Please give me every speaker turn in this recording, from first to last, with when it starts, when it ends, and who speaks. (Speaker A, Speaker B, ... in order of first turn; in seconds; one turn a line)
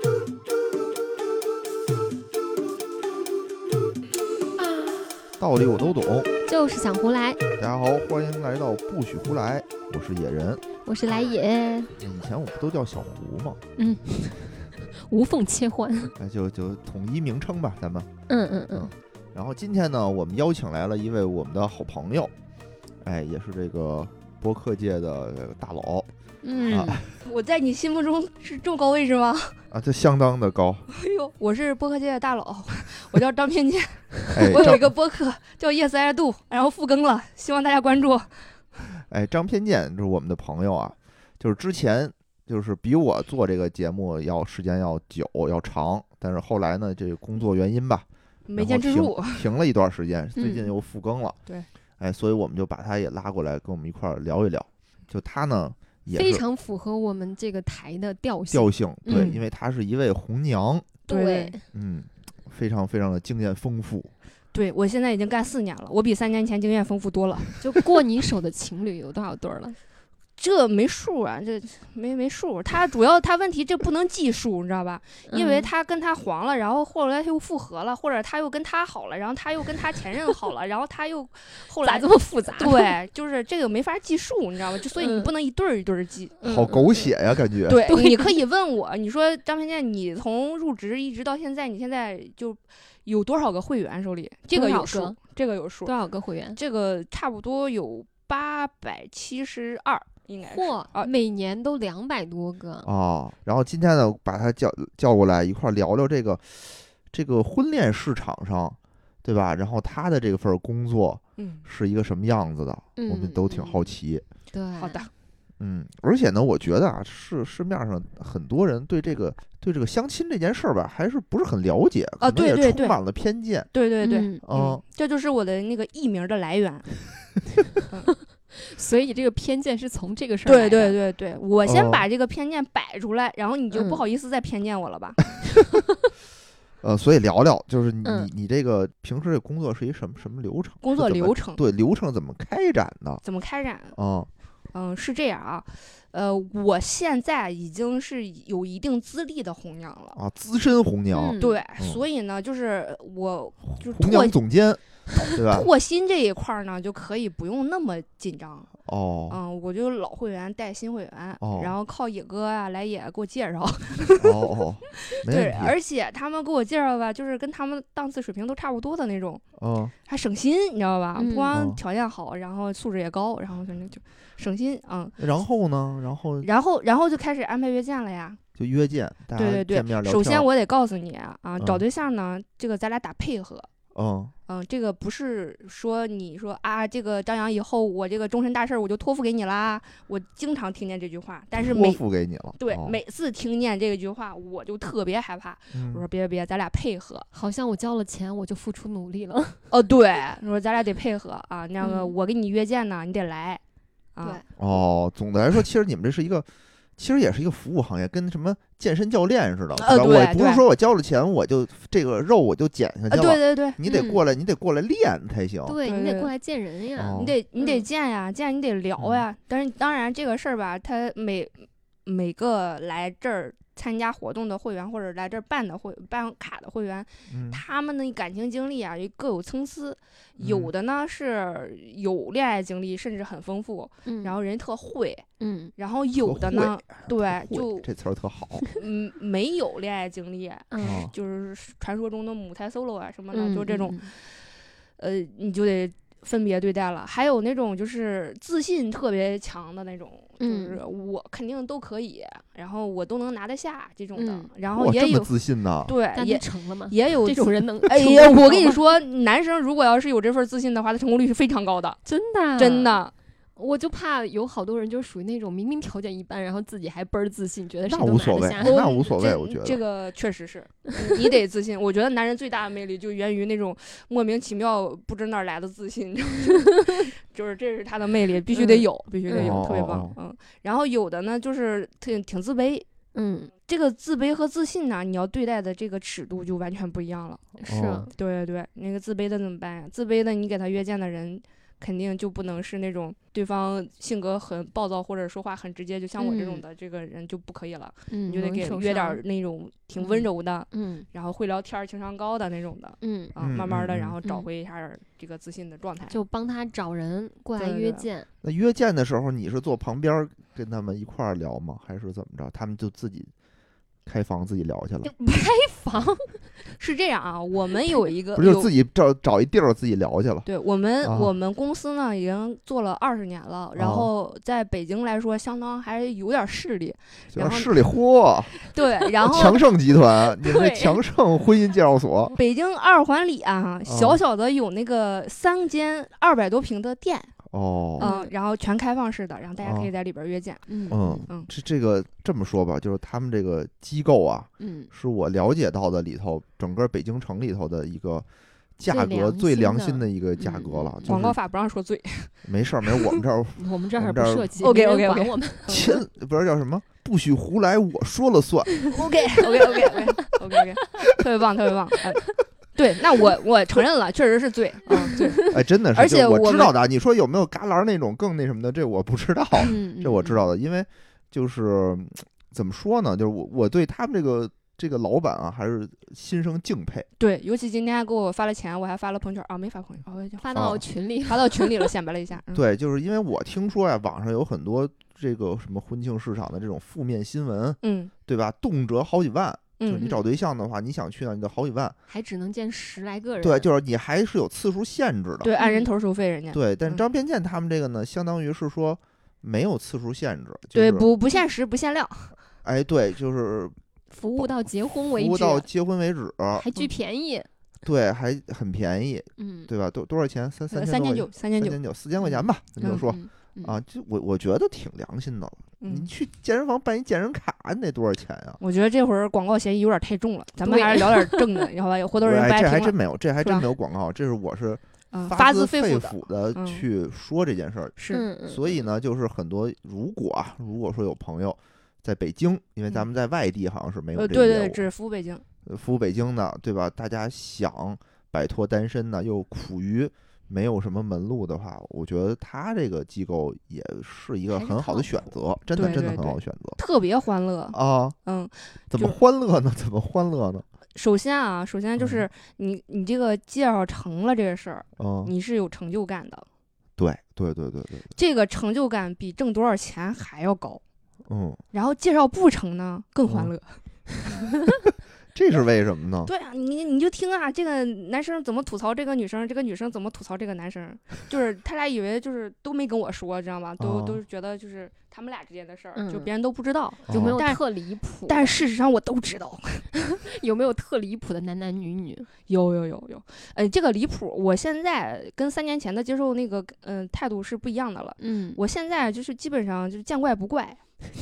Speaker A: 5.4-6.3
Speaker B: 6.4-7.4
Speaker A: 7.6-10.6
Speaker B: 10.8-11.9
Speaker A: 12.0-13.6
Speaker B: 13.8-16.1
Speaker A: 16.2-18.1
Speaker B: 18.3-18.9
Speaker A: 18.7-22.3
Speaker A: 23.0-26.1
Speaker B: 26.4-27.0
Speaker A: 26.7-27.1
Speaker C: 27.2-29.6
Speaker A: 29.7-30.9
Speaker C: 30.9-38.4
Speaker A: 34.3-34.9
Speaker A: 39.1-51.4
Speaker C: 48.5-49.5
Speaker B: 50.4-50.7
Speaker A: 52.0-56.4
Speaker B: 56.1-59.3
Speaker A: 58.5-60.9
Speaker C: 59.1-59.4
Speaker B: 61.1-61.6
Speaker C: 61.1-61.6
Speaker A: 61.7-64.1
Speaker C: 64.5-67.6
Speaker B: 67.6-69.8
Speaker C: 70.4-86.4
Speaker B: 75.3-75.7
Speaker B: 81.8-82.9
Speaker B: 84.9-85.3
Speaker B: 86.4-87.1
Speaker A: 86.4-87.8
Speaker C: 87.7-95.9
Speaker B: 87.9-88.3
Speaker B: 94.5-95.2
Speaker B: 95.8-96.6
Speaker C: 96.5-101.1
Speaker B: 100.4-102.9
Speaker A: 102.8-114.2
Speaker C: 111.4-111.6
Speaker B: 113.0-113.7
Speaker B: 114.5-115.1
Speaker C: 114.8-115.1
Speaker A: 115.6-123.7
Speaker C: 122.2-123.0
Speaker C: 123.7-126.9
Speaker B: 124.0-124.4
Speaker A: 124.4-124.8
Speaker B: 128.1-131.0
Speaker C: 130.5-135.4
Speaker A: 131.7-132.0
Speaker B: 133.7-134.0
Speaker A: 136.8-143.2
Speaker B: 138.0-138.3
Speaker C: 140.8-141.6
Speaker C: 143.2-144.0
Speaker A: 143.9-144.3
Speaker C: 144.7-150.2
Speaker A: 150.1-152.0
Speaker B: 151.1-151.6
Speaker C: 151.4-154.4
Speaker A: 153.8-155.7
Speaker C: 155.3-158.7
Speaker A: 158.8-159.4
Speaker C: 159.3-169.4
Speaker A: 161.4-161.8
Speaker A: 164.2-165.8
Speaker A: 169.6-169.9
Speaker C: 170.1-175.2
Speaker B: 171.2-171.5
Speaker A: 171.5-171.8
Speaker A: 175.2-176.5
Speaker C: 176.4-178.4
Speaker A: 178.6-180.5
Speaker C: 179.3-183.7
Speaker A: 181.6-181.8
Speaker A: 183.9-184.3
Speaker C: 184.5-192.0
Speaker A: 191.6-193.0
Speaker C: 192.6-197.3
Speaker A: 195.7-196.0
Speaker B: 197.3-199.6
Speaker C: 199.7-203.6
Speaker B: 201.8-202.1
Speaker C: 204.2-204.4
Speaker A: 204.6-215.8
Speaker C: 209.8-210.6
Speaker C: 213.1-213.8
Speaker B: 213.8-214.2
Speaker B: 215.7-217.8
Speaker C: 215.8-216.3
Speaker A: 217.0-217.4
Speaker C: 217.2-235.3
Speaker A: 219.0-219.2
Speaker A: 227.3-227.6
Speaker A: 230.4-230.7
Speaker B: 234.1-234.4
Speaker B: 235.4-235.7
Speaker C: 235.8-237.9
Speaker A: 236.2-238.7
Speaker C: 238.8-244.4
Speaker B: 240.7-241.1
Speaker A: 240.8-241.1
Speaker B: 243.3-244.1
Speaker C: 245.0-255.3
Speaker B: 250.4-250.8
Speaker B: 254.1-254.5
Speaker A: 254.7-255.9
Speaker C: 255.9-262.0
Speaker B: 256.1-258.8
Speaker B: 262.1-263.0
Speaker C: 262.6-263.1
Speaker B: 263.6-268.9
Speaker A: 267.9-269.8
Speaker C: 268.6-282.9
Speaker B: 276.7-277.1
Speaker B: 278.5-279.6
Speaker A: 279.3-280.1
Speaker B: 283.1-283.5
Speaker C: 283.7-287.5
Speaker B: 287.6-288.1
Speaker A: 287.7-288.1
Speaker C: 288.1-306.2
Speaker B: 296.2-296.6
Speaker B: 298.1-299.2
Speaker B: 300.0-301.1
Speaker B: 303.0-303.4
Speaker A: 303.4-304.2
Speaker B: 306.1-308.3
Speaker C: 307.6-308.1
Speaker A: 308.4-313.3
Speaker A: 314.1-315.1
Speaker B: 315.0-316.4
Speaker C: 316.8-318.7
Speaker A: 318.4-320.5
Speaker C: 320.4-327.9
Speaker A: 321.0-321.3
Speaker A: 323.8-324.1
Speaker A: 327.3-328.6
Speaker C: 328.6-329.6
Speaker A: 329.2-332.3
Speaker B: 330.2-331.0
Speaker C: 332.4-337.4
Speaker A: 333.9-334.2
Speaker A: 337.5-338.1
Speaker C: 338.0-340.6
Speaker B: 338.0-338.3
Speaker A: 339.6-339.9
Speaker B: 340.7-341.3
Speaker A: 340.9-348.3
Speaker B: 344.6-344.9
Speaker A: 348.8-351.4
Speaker B: 348.9-351.2
Speaker C: 351.1-353.2
Speaker A: 352.4-354.5
Speaker B: 353.6-355.7
Speaker C: 354.6-356.0
Speaker A: 355.7-358.8
Speaker B: 358.9-361.1
Speaker C: 358.9-366.8
Speaker B: 365.0-365.5
Speaker A: 365.5-377.1
Speaker B: 369.6-370.4
Speaker C: 377.2-382.7
Speaker B: 380.4-381.9
Speaker A: 380.6-380.8
Speaker A: 382.5-391.9
Speaker C: 387.8-388.1
Speaker C: 389.8-390.2
Speaker B: 392.1-393.7
Speaker A: 393.4-395.5
Speaker C: 395.4-397.0
Speaker B: 395.6-395.9
Speaker A: 396.5-401.1
Speaker C: 400.8-402.3
Speaker A: 402.6-403.8
Speaker B: 404.1-405.7
Speaker A: 405.1-406.7
Speaker B: 406.6-407.5
Speaker A: 407.8-418.6
Speaker B: 409.4-409.7
Speaker C: 410.7-411.8
Speaker B: 412.2-413.8
Speaker C: 415.8-416.1
Speaker C: 418.6-423.7
Speaker B: 420.6-421.6
Speaker A: 422.2-434.9
Speaker C: 425.1-426.9
Speaker C: 428.0-428.3
Speaker B: 428.1-428.6
Speaker C: 434.1-435.4
Speaker A: 435.7-446.8
Speaker B: 444.5-445.3
Speaker C: 445.8-449.2
Speaker B: 445.8-446.1
Speaker A: 447.7-448.2
Speaker A: 448.9-450.6
Speaker C: 450.9-456.4
Speaker A: 452.0-452.3
Speaker A: 455.0-455.3
Speaker A: 457.0-458.1
Speaker C: 458.1-460.8
Speaker A: 461.3-461.6
Speaker C: 461.7-464.5
Speaker A: 463.2-463.5
Speaker A: 465.3-466.3
Speaker C: 466.2-477.6
Speaker A: 473.8-474.2
Speaker B: 475.9-476.3
Speaker B: 477.1-478.6
Speaker A: 477.1-477.4
Speaker C: 478.3-479.9
Speaker B: 479.9-482.3
Speaker C: 482.5-490.8
Speaker B: 488.2-488.6